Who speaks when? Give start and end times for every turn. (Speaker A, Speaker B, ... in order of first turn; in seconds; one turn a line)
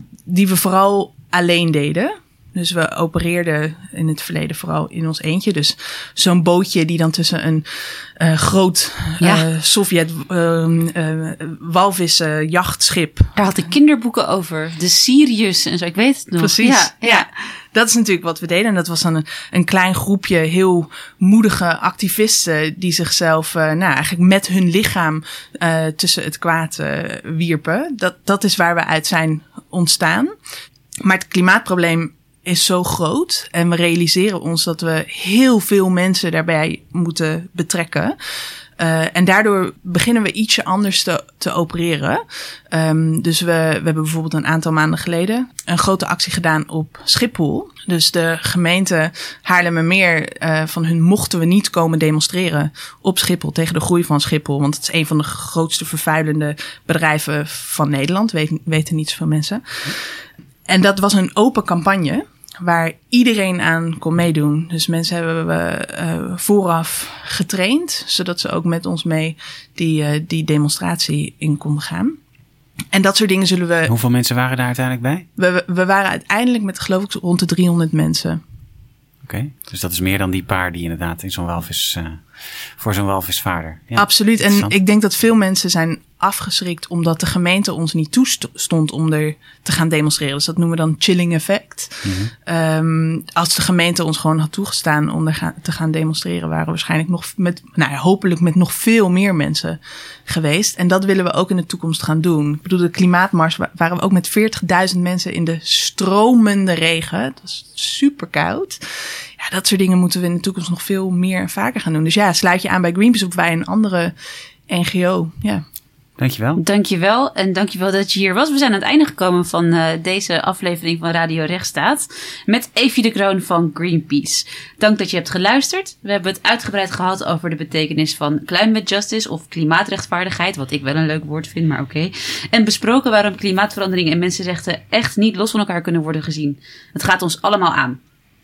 Speaker A: 0.3-13.3
Speaker B: 9.2-9.4
Speaker B: 13.3-17.2
Speaker A: 16.4-30.3
Speaker A: 31.0-38.1
Speaker A: 38.8-60.0
Speaker A: 60.7-72.2
Speaker A: 72.9-73.9
Speaker C: 73.9-75.3
Speaker A: 75.4-78.4
Speaker C: 79.2-82.2
Speaker C: 82.8-84.7
Speaker A: 84.0-108.8
Speaker C: 92.0-92.3
Speaker A: 109.4-114.1
Speaker A: 114.7-115.6
Speaker C: 116.2-116.6
Speaker B: 116.6-138.0